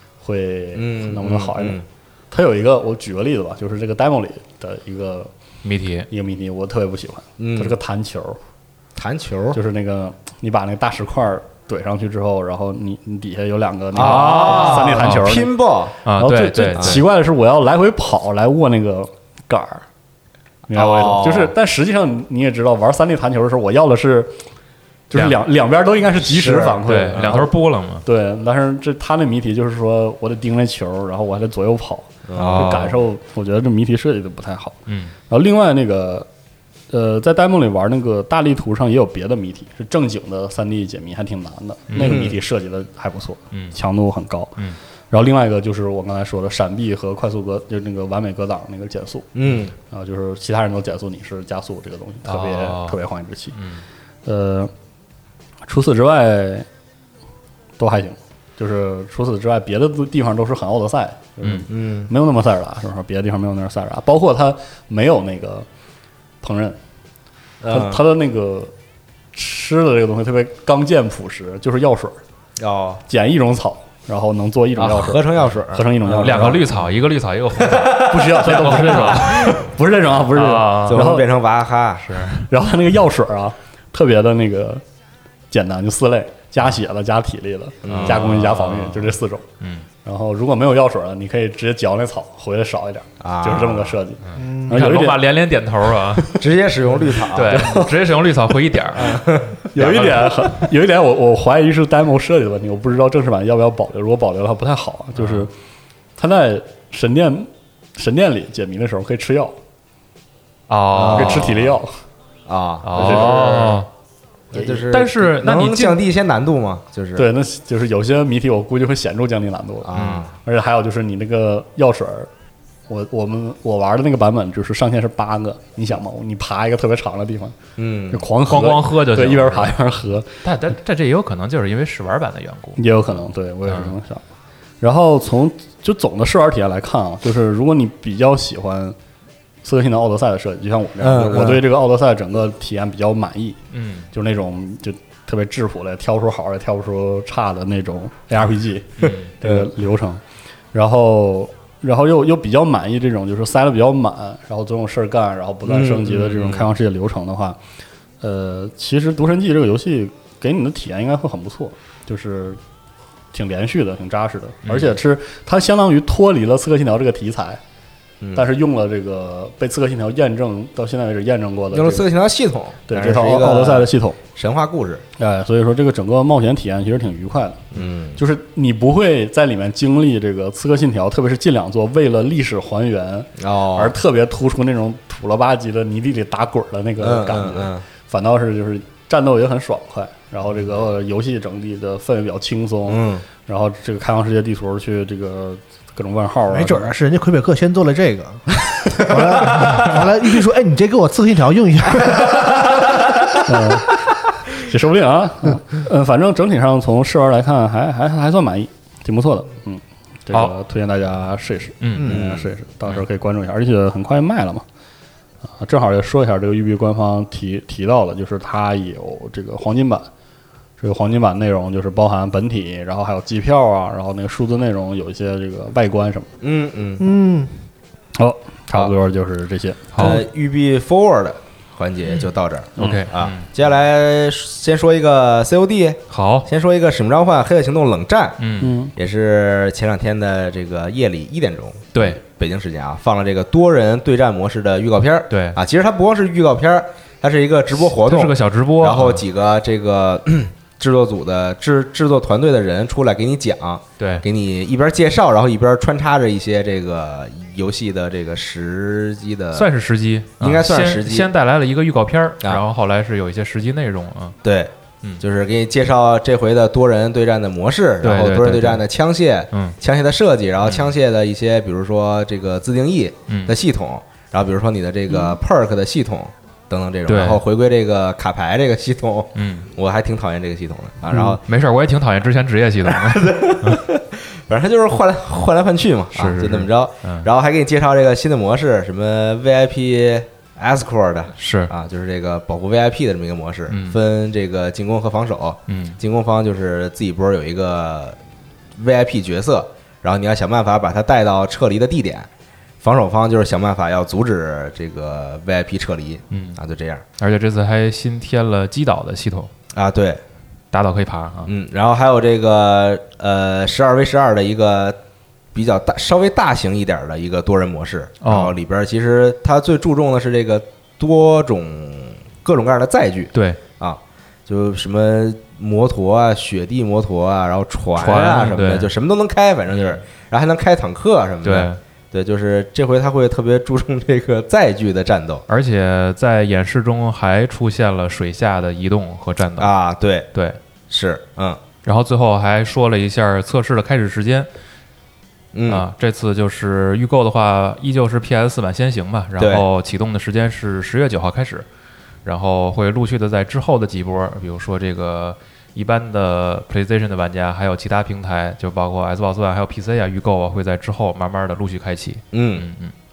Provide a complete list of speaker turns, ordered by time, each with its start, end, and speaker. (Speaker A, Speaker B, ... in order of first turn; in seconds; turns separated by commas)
Speaker A: 0.2-5.3, Speaker B: 0.8-1.9, Speaker C: 5.6-6.1, Speaker A: 6.1-8.4, Speaker B: 7.4-7.8, Speaker B: 9.0-9.6, Speaker A: 9.5-15.5, Speaker B: 13.9-16.0, Speaker C: 14.0-15.3, Speaker C: 16.1-17.1, Speaker A: 16.1-19.9, Speaker B: 16.8-17.0, Speaker A: 20.7-24.3, Speaker B: 20.7-21.5, Speaker A: 25.1-34.8, Speaker C: 25.1-25.4, Speaker B: 26.2-27.4, Speaker C: 26.8-28.0, Speaker B: 32.3-32.8, Speaker C: 32.4-33.0, Speaker C: 34.9-35.1, Speaker A: 35.3-36.3, Speaker A: 36.9-44.6, Speaker C: 41.9-42.3, Speaker B: 42.0-42.4, Speaker C: 43.5-43.8, Speaker A: 45.1-49.3, Speaker B: 49.4-49.7, Speaker A: 49.9-53.6, Speaker C: 52.3-53.0, Speaker C: 53.5-53.8, Speaker A: 54.3-54.7, Speaker A: 55.7-56.7, Speaker A: 57.8-65.7, Speaker C: 61.4-61.7, Speaker B: 61.7-62.1, Speaker A: 66.4-66.8, Speaker B: 67.6-68.0, Speaker A: 67.7-68.7, Speaker A: 69.3-72.2, Speaker B: 72.6-73.0, Speaker A: 73.1-76.7, Speaker B: 74.8-76.8, Speaker C: 76.1-79.6, Speaker B: 77.6-79.7, Speaker A: 77.9-81.3, Speaker C: 80.3-81.1, Speaker B: 80.9-82.2, Speaker C: 82.0-82.5, Speaker A: 82.5-84.8, Speaker A: 85.5-89.5, Speaker B: 87.8-88.4, Speaker C: 87.9-89.9, Speaker A: 90.0-95.3, Speaker B: 93.2-94.0, Speaker C: 94.3-96.4, Speaker D: 94.4-94.9, Speaker B: 96.3-97.8, Speaker C: 97.2-99.2, Speaker A: 97.4-98.1, Speaker B: 98.9-100.1, Speaker A: 99.7-105.5, Speaker C: 99.7-100.5, Speaker C: 105.2-105.5, Speaker A: 106.2-109.6, Speaker C: 110.7-111.7, Speaker B: 110.9-111.7, Speaker A: 111.1-112.0, Speaker B: 112.5-113.8, Speaker C: 112.8-113.9, Speaker A: 113.0-113.8, Speaker B: 114.5-117.3, Speaker C: 114.8-116.0, Speaker A: 117.2-122.3, Speaker B: 119.8-120.3, Speaker C: 119.9-120.3, Speaker A: 122.9-127.5, Speaker B: 127.8-128.3, Speaker A: 128.1-130.4, Speaker C: 128.5-129.7, Speaker C: 130.4-133.0, Speaker A: 132.8-134.2, Speaker C: 133.7-133.9, Speaker A: 134.8-139.0, Speaker A: 139.6-143.6, Speaker B: 141.0-141.7, Speaker C: 143.7-144.1, Speaker A: 144.1-150.2, Speaker C: 149.0-149.3, Speaker B: 149.0-149.7, Speaker A: 150.7-157.6, Speaker B: 155.7-156.6, Speaker A: 158.2-162.6, Speaker A: 163.3-167.6, Speaker A: 168.3-172.1, Speaker B: 171.7-175.0, Speaker A: 172.9-174.2, Speaker A: 175.2-196.9, Speaker B: 177.7-178.2, Speaker B: 183.4-183.9, Speaker B: 187.0-187.8, Speaker B: 192.9-193.2, Speaker D: 196.5-203.0, Speaker B: 198.8-200.1, Speaker B: 201.9-203.4, Speaker A: 203.5-203.9, Speaker A: 204.6-214.7, Speaker C: 211.8-212.2, Speaker B: 212.0-212.5, Speaker A: 215.6-220.1, Speaker A: 220.8-226.3, Speaker B: 226.4-227.1, Speaker D: 227.0-227.6, Speaker A: 228.2-230.2, Speaker C: 229.9-230.2, Speaker B: 230.0-259.7, Speaker C: 232.8-233.5, Speaker A: 232.8-233.0, Speaker C: 236.1-236.5, Speaker C: 238.4-238.8, Speaker A: 238.6-238.9, Speaker C: 241.9-242.2, Speaker C: 245.3-245.6, Speaker C: 247.8-249.3, Speaker C: 254.0-254.2, Speaker C: 259.5-264.4, Speaker B: 260.4-261.3, Speaker B: 264.4-281.4, Speaker C: 268.0-268.9, Speaker C: 270.6-270.9, Speaker C: 273.3-273.6, Speaker C: 277.1-277.4, Speaker C: 279.4-279.7, Speaker C: 281.1-283.8, Speaker B: 282.9-298.2, Speaker C: 286.1-287.3, Speaker C: 291.4-291.7, Speaker C: 293.7-294.0, Speaker C: 295.7-296.0, Speaker B: 298.8-302.3, Speaker B: 302.8-307.0, Speaker C: 306.3-306.6, Speaker C: 307.2-309.5, Speaker B: 309.7-310.2, Speaker C: 310.7-311.5, Speaker B: 311.5-315.0, Speaker B: 315.5-335.4, Speaker C: 318.2-318.6, Speaker C: 323.3-323.6, Speaker C: 328.0-328.9, Speaker C: 329.7-330.0, Speaker C: 331.4-331.8, Speaker C: 335.5-339.7, Speaker B: 339.6-340.3, Speaker B: 340.9-341.6, Speaker C: 341.9-344.5, Speaker B: 345.5-345.9, Speaker C: 345.7-351.7, Speaker B: 349.4-349.6, Speaker C: 352.2-362.9, Speaker B: 362.3-362.7